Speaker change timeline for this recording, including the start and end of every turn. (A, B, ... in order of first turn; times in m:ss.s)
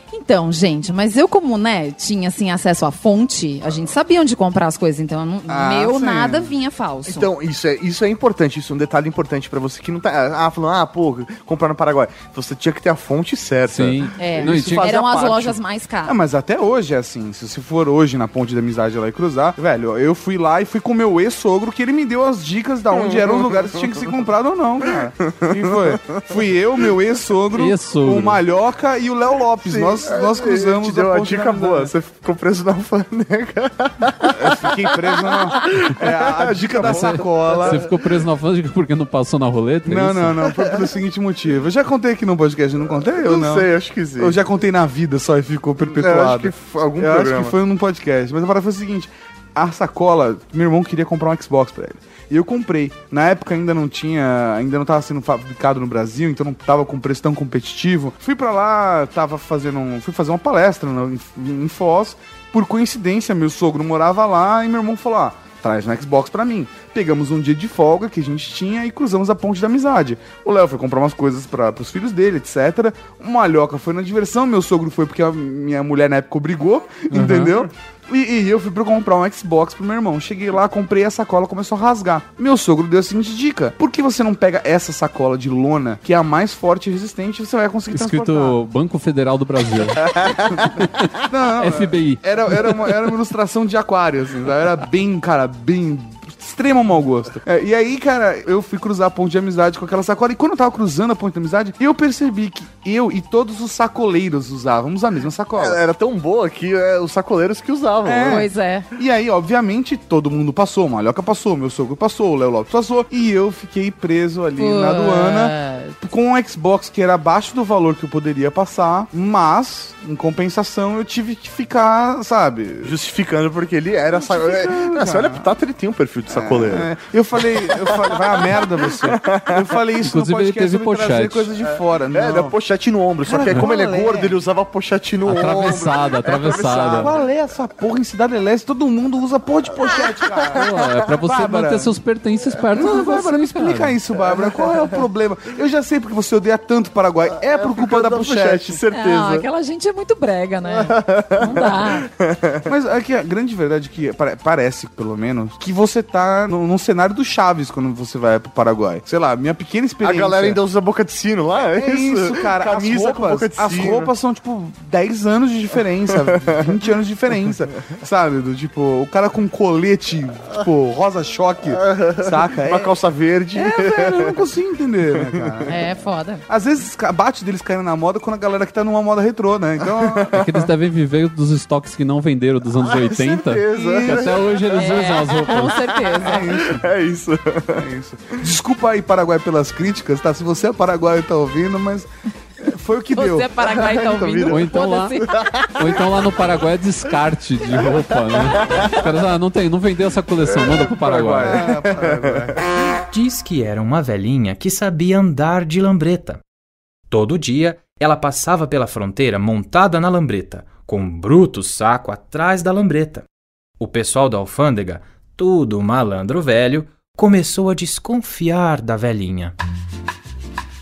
0:00.1-0:07.3 A
0:05.5-0:06.5 B
0:07.0-0:15.6 C
0:13.7-0:15.0 D
0:14.2-0:16.2 A
0:16.0-0:31.9 B
0:22.9-0:23.8 C
0:25.0-0:26.2 C
0:27.6-0:28.4 D
0:29.6-0:37.9 C
0:34.3-0:37.8 B
0:36.9-0:40.4 D
0:39.8-1:28.6 B
0:43.2-0:44.4 C
0:45.8-0:47.5 C
1:17.1-1:17.5 D
1:27.9-1:32.9 D
1:31.2-1:45.8 B
1:45.6-1:48.5 C
1:48.0-2:02.9 B
1:48.2-1:48.9 A
1:54.6-1:55.9 A
2:02.8-2:06.9 C
2:04.1-2:05.5 B
2:06.3-2:12.5 B
2:07.5-2:09.6 C
2:10.0-2:11.5 D
2:12.1-2:17.2 C
2:13.2-2:14.4 B
2:15.2-2:17.1 D
2:17.0-2:22.0 B
2:19.9-2:20.8 C
2:20.5-2:24.0 D
2:22.7-2:28.8 B
2:22.8-2:23.0 C
2:24.2-2:25.0 C
2:27.5-2:29.5 C
2:28.9-2:32.1 A
2:30.7-2:32.7 C
2:32.6-2:40.6 B
2:40.0-2:44.1 C
2:41.7-2:53.0 B
2:46.2-2:46.6 C
2:51.7-2:54.4 C
2:53.5-2:55.7 B
2:55.2-2:55.7 C
2:55.7-2:56.4 A
2:56.5-3:00.3 B
3:00.0-3:00.6 C
3:00.3-3:05.9 D
3:02.8-3:07.8 C
3:03.7-3:04.5 B
3:04.8-3:06.4 A
3:06.2-3:06.9 B
3:07.7-3:12.1 B
3:12.6-3:13.5 B
3:13.1-3:15.4 A
3:13.6-3:16.0 C
3:14.5-3:15.2 D
3:15.8-3:21.6 D
3:18.5-3:19.0 C
3:20.6-3:22.6 C
3:21.1-3:22.6 B
3:23.1-3:26.4 E
3:27.1-3:33.2 E
3:33.8-3:39.5 E